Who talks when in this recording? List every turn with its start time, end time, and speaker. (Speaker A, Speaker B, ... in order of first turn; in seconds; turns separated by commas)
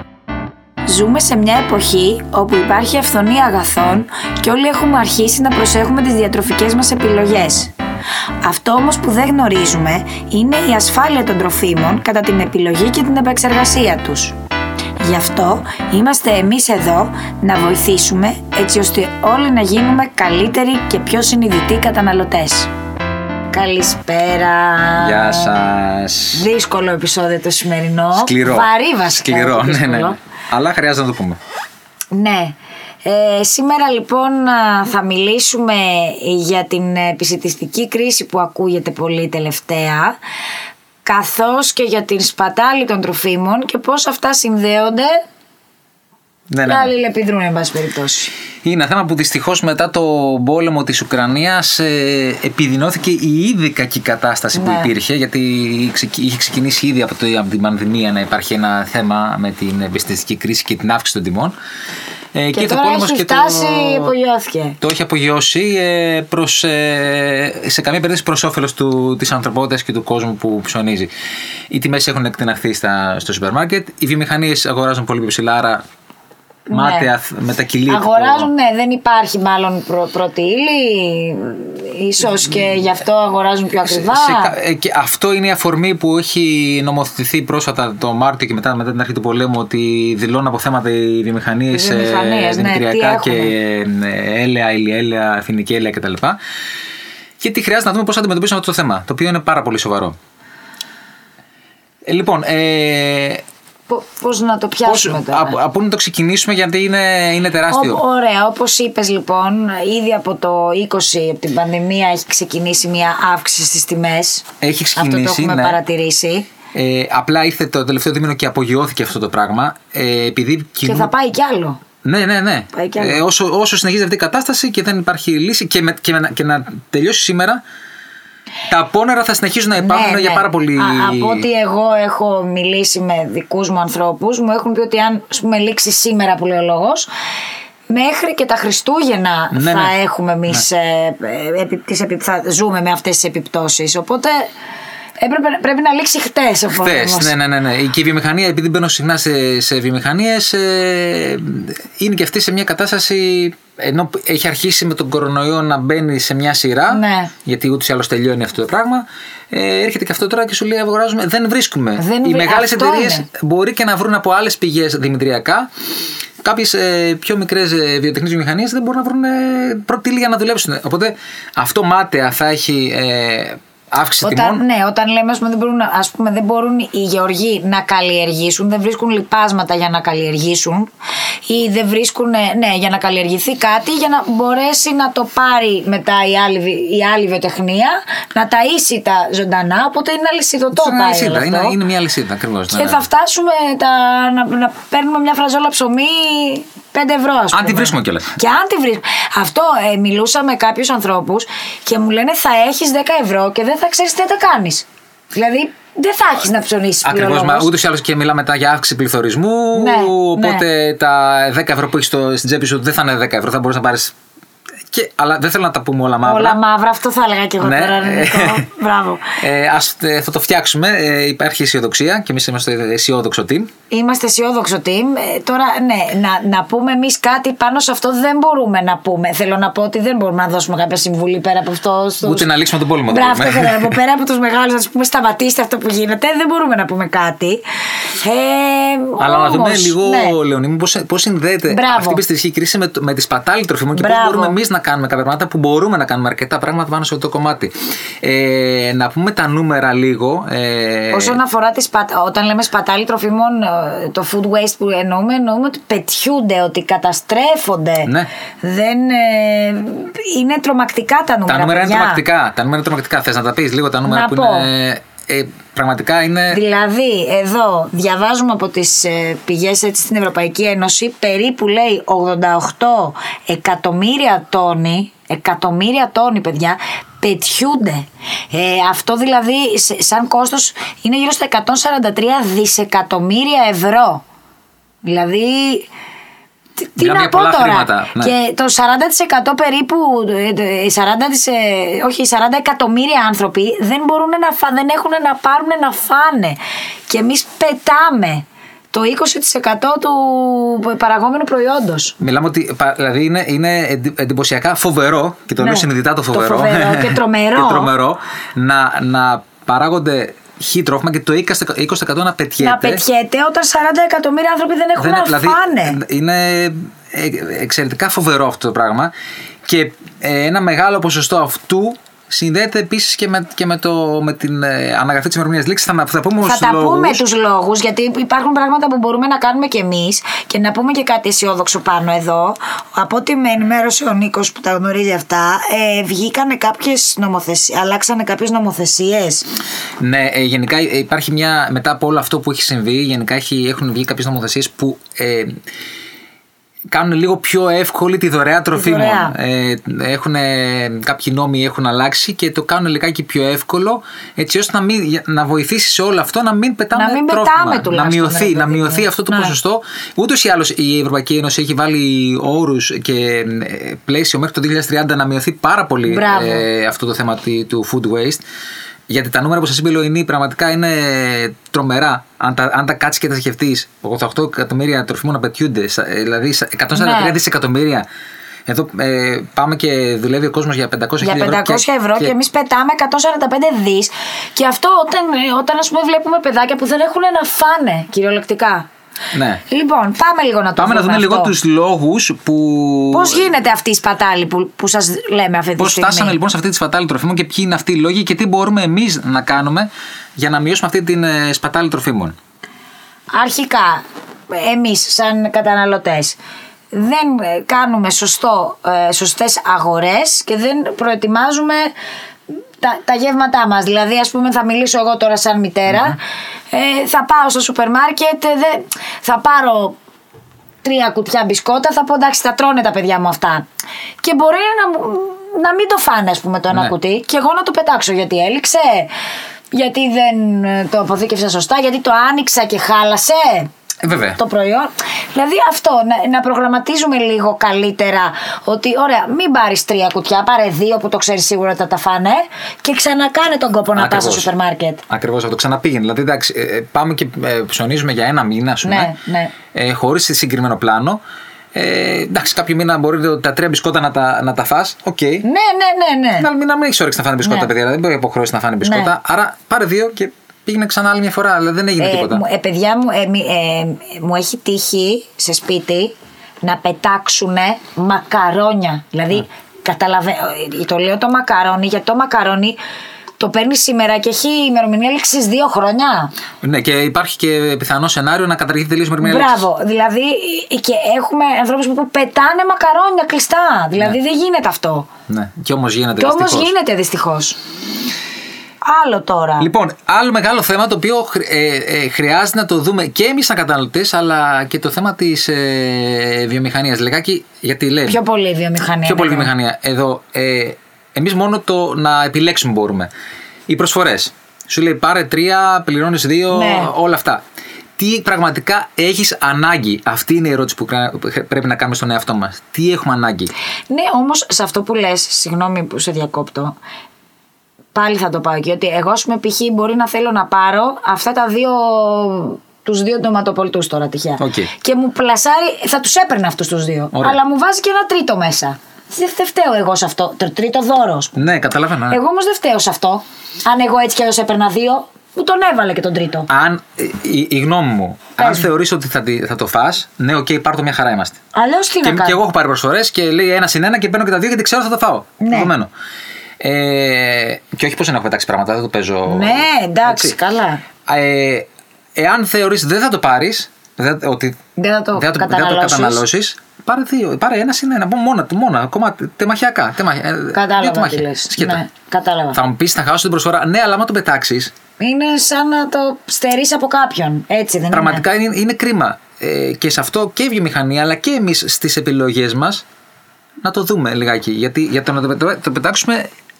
Speaker A: 0.9-7.7, Speaker A: 8.4-14.3, Speaker A: 15.0-22.7, Speaker A: 23.5-25.5, Speaker B: 25.0-26.4, Speaker A: 26.3-30.2, Speaker B: 28.1-31.4, Speaker A: 32.1-40.2, Speaker A: 41.0-45.2, Speaker B: 46.5-46.9, Speaker A: 46.6-48.3, Speaker B: 48.6-61.5, Speaker A: 54.5-54.9, Speaker B: 62.3-64.1, Speaker A: 62.5-64.8, Speaker B: 64.8-71.1, Speaker B: 71.7-75.8, Speaker A: 76.7-77.1, Speaker B: 76.7-78.5, Speaker A: 77.9-84.5, Speaker B: 83.8-96.4, Speaker A: 91.7-93.5, Speaker B: 97.4-100.2, Speaker B: 102.0-103.4, Speaker A: 103.9-105.6, Speaker B: 104.8-108.0, Speaker A: 107.7-116.5, Speaker B: 114.6-115.8, Speaker B: 116.7-121.1, Speaker A: 120.8-121.8, Speaker B: 122.0-127.6, Speaker A: 122.7-123.2, Speaker B: 128.7-131.5, Speaker A: 129.8-137.1, Speaker A: 137.9-144.5, Speaker B: 139.5-139.9, Speaker A: 145.2-147.3, Speaker B: 146.7-165.7, Speaker A: 156.9-157.3, Speaker A: 162.0-163.3, Speaker B: 166.4-174.6, Speaker A: 174.2-180.9, Speaker A: 181.5-191.8, Speaker B: 190.7-193.0, Speaker A: 192.7-207.7, Speaker B: 197.5-198.3, Speaker B: 207.0-214.1, Speaker A: 209.7-210.6, Speaker B: 214.9-216.6, Speaker A: 216.2-219.4, Speaker B: 217.6-218.7, Speaker B: 219.4-223.7, Speaker A: 223.9-232.5, Speaker B: 232.2-234.0, Speaker A: 233.1-240.4, Speaker B: 239.2-251.4, Speaker A: 241.7-242.2, Speaker A: 243.9-244.6, Speaker A: 251.1-262.2, Speaker B: 258.0-258.3, Speaker B: 261.5-266.6, Speaker A: 264.0-264.7, Speaker A: 266.5-284.2, Speaker A: 285.0-285.9, Speaker A: 286.8-302.1, Speaker B: 287.0-288.3, Speaker B: 302.2-313.0, Speaker A: 305.6-307.9, Speaker A: 312.6-316.0, Speaker B: 315.0-319.1, Speaker B: 319.6-327.2, Speaker A: 326.4-339.5, Speaker B: 340.0-345.6, Speaker B: 346.9-368.4, Speaker A: 348.7-349.3, Speaker A: 356.9-359.6, Speaker A: 366.1-366.6, Speaker B: 369.1-378.1, Speaker A: 376.9-377.4, Speaker B: 378.6-382.3, Speaker A: 381.2-388.9, Speaker B: 389.3-389.6, Speaker A: 389.7-391.5, Speaker B: 390.8-393.5, Speaker A: 393.1-396.4, Speaker B: 395.8-402.4, Speaker A: 403.3-406.4, Speaker A: 406.9-411.9, Speaker A: 412.5-416.2, Speaker A: 416.7-420.0, Speaker A: 420.8-423.6, Speaker A: 424.2-429.1, Speaker A: 429.7-433.7, Speaker B: 434.0-434.4, Speaker A: 434.2-445.0, Speaker B: 443.9-444.5, Speaker B: 445.1-449.1, Speaker A: 448.8-449.5, Speaker B: 449.7-451.2, Speaker B: 451.7-455.4, Speaker A: 455.4-456.5, Speaker B: 456.4-462.4, Speaker A: 457.4-457.7, Speaker A: 458.8-459.1, Speaker A: 462.0-472.8, Speaker A: 473.4-476.3, Speaker B: 476.6-479.6, Speaker A: 479.2-485.1, Speaker B: 485.3-486.7, Speaker A: 486.2-487.6, Speaker A: 488.8-489.7, Speaker B: 489.6-498.2, Speaker A: 498.1-499.5, Speaker B: 499.0-503.1, Speaker B: 503.7-507.4, Speaker A: 506.5-506.9, Speaker B: 508.0-513.5, Speaker A: 513.9-516.8, Speaker A: 517.9-531.3, Speaker B: 524.4-524.7, Speaker B: 527.1-527.4, Speaker B: 531.4-532.2, Speaker A: 532.1-536.5, Speaker B: 536.5-541.4, Speaker A: 538.4-538.7, Speaker A: 541.5-542.4, Speaker B: 542.0-545.9, Speaker A: 545.4-545.7, Speaker B: 546.6-550.4, Speaker A: 549.2-550.8, Speaker B: 551.0-554.6, Speaker A: 554.8-556.2, Speaker B: 555.1-561.8, Speaker A: 560.5-562.6, Speaker B: 562.5-564.7, Speaker A: 565.0-568.2, Speaker B: 567.9-572.8, Speaker B: 573.6-576.3